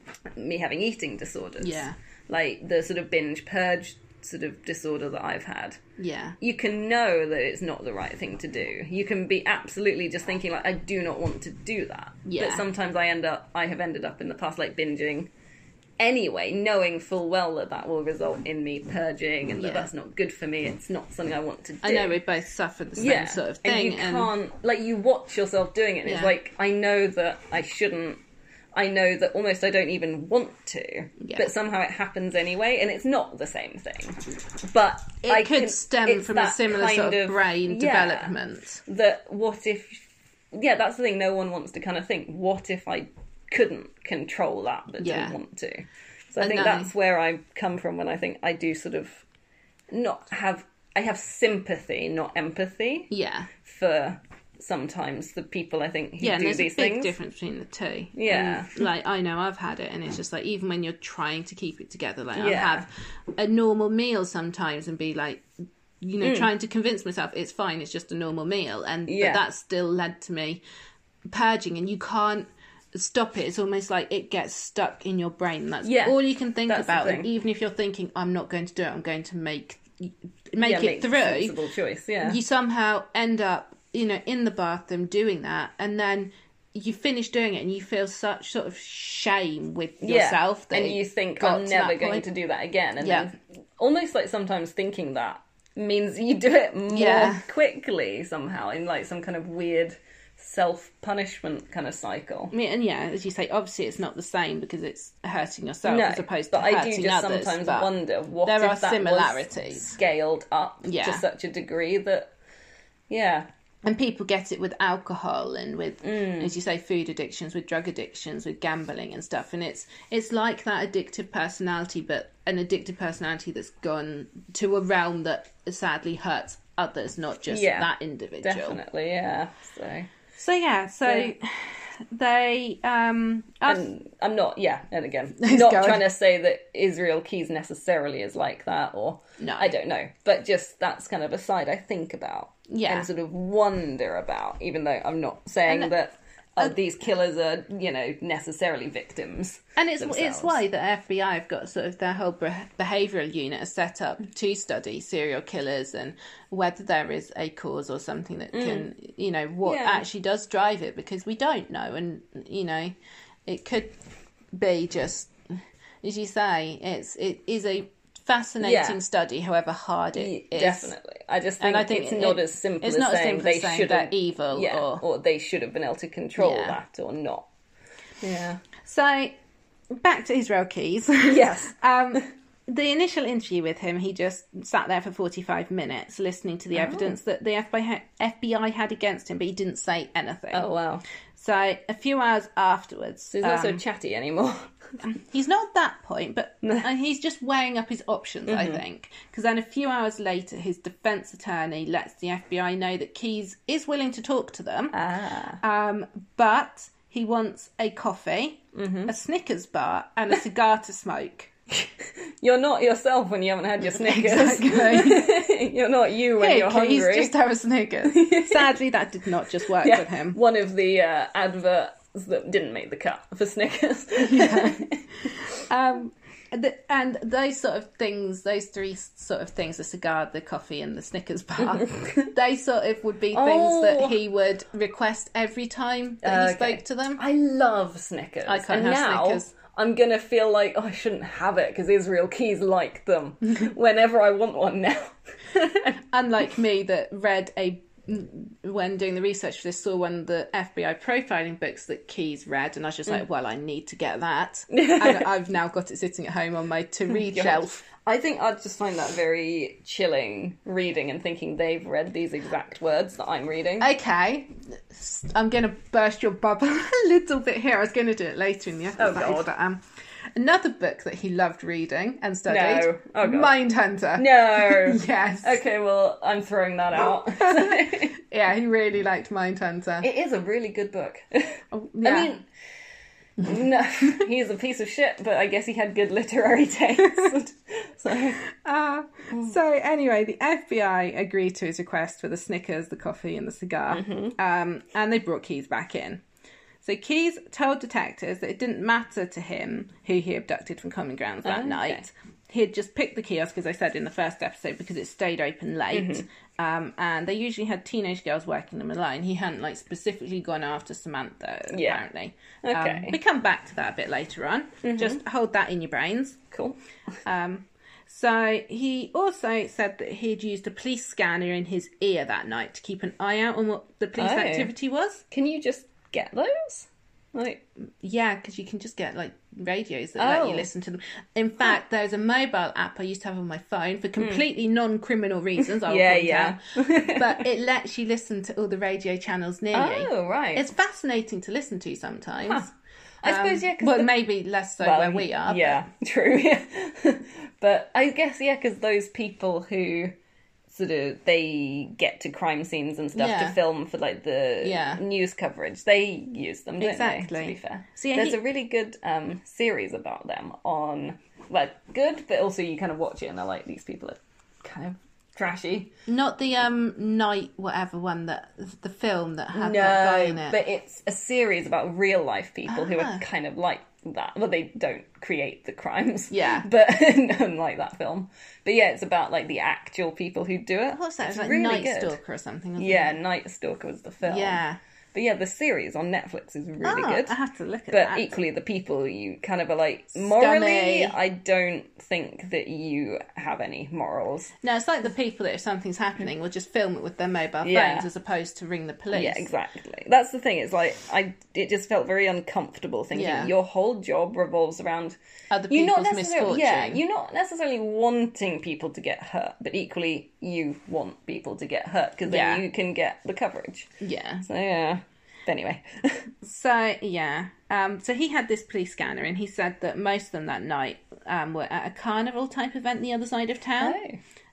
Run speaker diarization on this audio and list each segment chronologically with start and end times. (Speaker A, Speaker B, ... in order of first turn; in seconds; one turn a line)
Speaker A: 0.3-5.8
Speaker B: 1.6-1.9
Speaker B: 6.0-6.4
Speaker A: 6.4-15.3
Speaker B: 12.2-12.7
Speaker A: 16.0-22.2
Speaker B: 19.5-19.9
Speaker B: 21.8-24.3
Speaker A: 23.0-28.2
Speaker B: 26.0-26.3
Speaker A: 28.7-49.2
Speaker B: 31.2-31.5
Speaker B: 35.2-38.8
Speaker B: 45.0-45.4
Speaker B: 46.4-46.9
Speaker A: 49.9-57.1
Speaker B: 53.1-53.5
Speaker B: 56.2-65.5
Speaker A: 58.1-58.8
Speaker A: 62.4-62.9
Speaker B: 66.0-70.6
Speaker A: 66.2-66.5
Speaker A: 69.1-69.4
Speaker B: 71.3-81.6
Speaker A: 75.8-77.3
Speaker A: 80.6-82.4
Speaker B: 82.2-92.3
Speaker A: 90.0-102.5
Speaker B: 93.0-93.3
Speaker B: 96.9-97.5
Speaker B: 102.5-107.9
Speaker A: 105.8-112.3
Speaker B: 108.4-110.0
Speaker B: 110.8-111.2
Speaker A: 113.1-113.5
Speaker B: 113.8-128.8
Speaker A: 116.0-116.5
Speaker A: 127.5-130.1
Speaker B: 130.4-133.8
Speaker A: 133.7-150.6
Speaker B: 135.4-136.1
Speaker B: 139.4-139.7
Speaker B: 142.7-143.1
Speaker B: 145.7-145.9
Speaker B: 149.8-163.9
Speaker A: 158.5-158.9
Speaker A: 159.6-160.0
Speaker B: 164.5-165.3
Speaker B: 166.0-170.9
Speaker A: 168.6-169.0
Speaker A: 170.1-177.5
Speaker B: 171.6-175.0
Speaker B: 176.4-176.8
Speaker A: 178.2-178.6
Speaker B: 178.8-179.4
Speaker B: 179.9-190.7
Speaker A: 181.2-181.8
Speaker A: 186.7-187.2
Speaker A: 190.5-191.0
Speaker B: 191.3-193.8
Speaker A: 193.3-194.7
Speaker B: 195.0-204.9
Speaker A: 198.5-198.8
Speaker A: 204.9-205.6
Speaker B: 205.6-211.9
Speaker A: 208.7-209.1
Speaker A: 212.0-217.3
Speaker B: 213.8-215.5
Speaker B: 216.4-220.4
Speaker A: 218.0-218.8
Speaker A: 219.6-225.4
Speaker B: 224.2-237.2
Speaker A: 231.6-232.3
Speaker A: 233.3-234.2
Speaker A: 236.2-245.9
Speaker B: 238.4-239.5
Speaker B: 245.8-257.8
Speaker A: 254.7-255.3
Speaker A: 257.1-263.9
Speaker B: 263.8-269.8
Speaker A: 269.0-269.5
Speaker B: 270.3-275.6
Speaker A: 272.5-273.5
Speaker A: 274.1-278.1
Speaker B: 277.4-280.1
Speaker A: 280.0-282.4
Speaker B: 281.7-282.3
Speaker A: 283.4-288.4
Speaker B: 288.4-296.2
Speaker A: 293.9-294.3
Speaker B: 296.8-316.4
Speaker A: 301.4-302.0
Speaker A: 305.9-306.2
Speaker A: 311.7-312.0
Speaker A: 312.6-313.2
Speaker A: 314.8-315.2
Speaker A: 316.5-316.8
Speaker B: 317.2-325.2
Speaker A: 324.2-324.7
Speaker A: 325.3-327.6
Speaker B: 328.0-342.7
Speaker A: 330.2-330.7
Speaker A: 334.2-334.4
Speaker A: 335.8-337.4
Speaker A: 339.7-340.6
Speaker A: 343.2-344.2
Speaker B: 343.2-345.9
Speaker A: 344.8-350.1
Speaker A: 350.7-365.9
Speaker B: 353.1-353.6
Speaker B: 354.6-355.0
Speaker B: 356.8-358.4
Speaker B: 366.1-370.6
Speaker A: 369.5-382.2
Speaker B: 372.7-373.2
Speaker B: 376.3-376.7
Speaker B: 380.9-383.2
Speaker A: 382.8-384.6
Speaker B: 384.2-384.8
Speaker A: 385.1-387.3
Speaker B: 386.8-388.3
Speaker A: 387.9-394.5
Speaker B: 390.2-391.1
Speaker B: 394.6-399.5
Speaker A: 397.6-398.1
Speaker A: 399.1-405.1
Speaker B: 403.1-403.5
Speaker B: 405.5-407.0
Speaker A: 405.7-413.9
Speaker B: 412.2-412.6
Speaker B: 414.0-414.4
Speaker A: 414.4-416.3
Speaker B: 416.4-424.0
Speaker A: 423.8-424.2